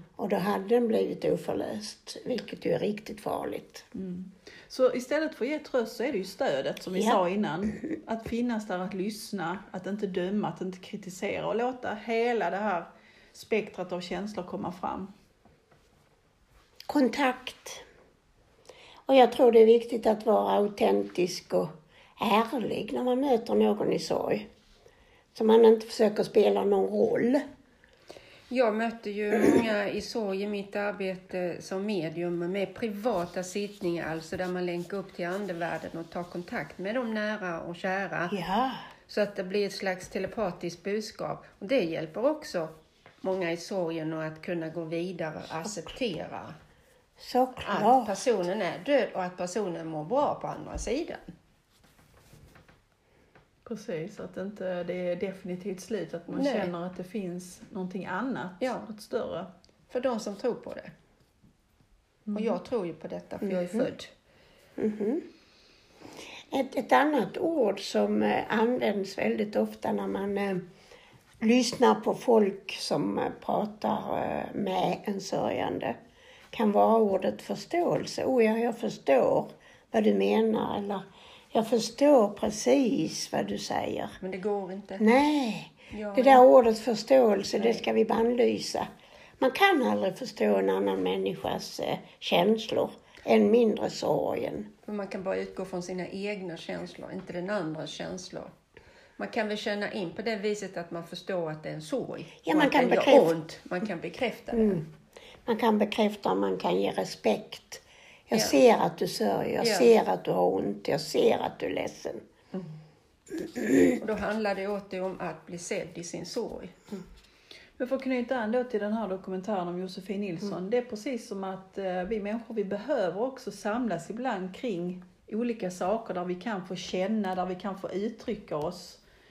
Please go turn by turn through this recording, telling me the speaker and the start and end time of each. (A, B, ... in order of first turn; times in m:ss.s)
0:00.2-0:03.9 A
0:03.9-0:15.1 B
0:16.9-0:17.8 A
0:19.1-0:24.5 A
0:25.3-0:27.4 A
0:28.5-0:38.4 C
0:38.3-0:38.8 A
0:39.1-0:46.6 C
0:47.2-0:48.2 A
0:47.6-0:51.3 C
0:53.7-0:59.5 B
0:56.3-0:56.7 C
0:59.9-1:00.9 C
1:02.3-1:02.6 B
1:02.3-1:04.1 C
1:03.4-1:03.9 A
1:04.8-1:05.3 A
1:06.5-1:10.6 A
1:11.4-1:16.0 A
1:16.5-1:24.2 A
1:24.2-1:25.1 C
1:25.0-1:28.9 A
1:25.9-1:26.4 C
1:29.4-1:34.7 A
1:34.9-1:38.5 C
1:39.2-1:44.8 C
1:42.4-1:43.4 A
1:44.5-1:44.8 A
1:45.5-1:52.2 A
1:49.6-1:49.9 C
1:53.6-1:54.0 A
1:54.0-1:56.8 C
1:57.8-2:09.0 B